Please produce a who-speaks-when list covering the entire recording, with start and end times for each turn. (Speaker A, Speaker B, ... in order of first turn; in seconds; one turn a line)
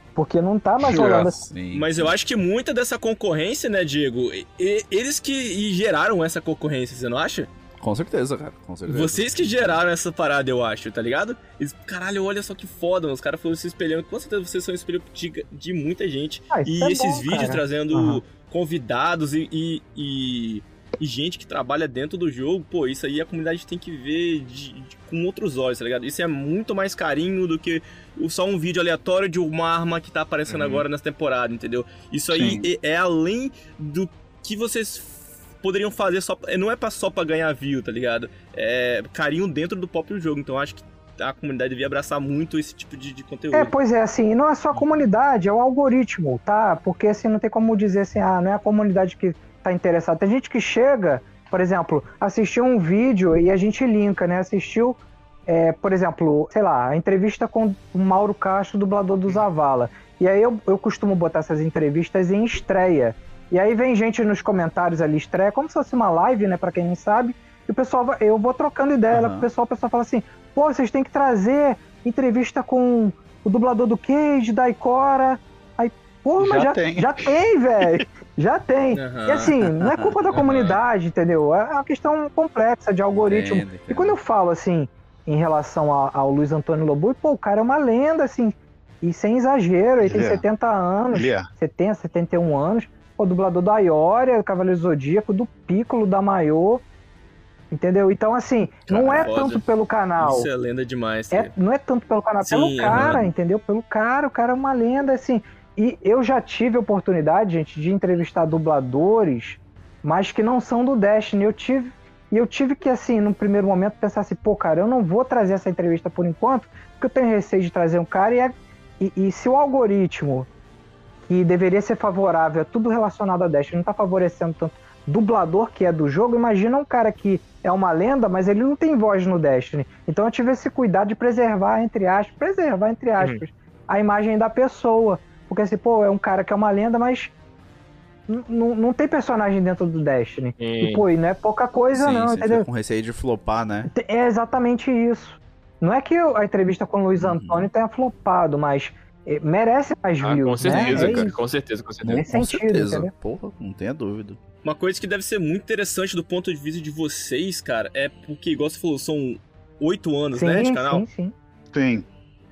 Speaker A: 0.2-1.5
Speaker B: 1.4-2.2
Speaker C: 1.7-7.5
Speaker B: 7.8-9.8
Speaker C: 8.9-43.7
Speaker A: 16.5-18.2
Speaker D: 30.5-30.9
Speaker E: 32.3-32.6
Speaker A: 43.5-96.8
Speaker B: 69.1-69.5
Speaker E: 76.4-77.3
Speaker C: 78.9-79.5
Speaker B: 79.8-80.1
Speaker C: 80.3-80.7
Speaker B: 83.1-84.2
Speaker E: 90.0-90.4
Speaker E: 91.1-91.5
Speaker A: 97.7-100.5
Speaker C: 99.1-99.6
Speaker C: 100.2-101.5
Speaker A: 101.3-120.5
Speaker C: 102.4-103.2
Speaker A: 121.3-137.3
Speaker A: 138.3-142.7
Speaker D: 140.6-141.1
Speaker B: 141.9-143.9
Speaker A: 143.9-151.4
Speaker B: 147.2-147.7
Speaker D: 150.2-152.3
Speaker B: 150.7-151.3
Speaker B: 152.0-154.4
Speaker A: 152.1-153.1
Speaker C: 154.6-161.1
Speaker A: 160.3-161.3
Speaker E: 161.7-162.1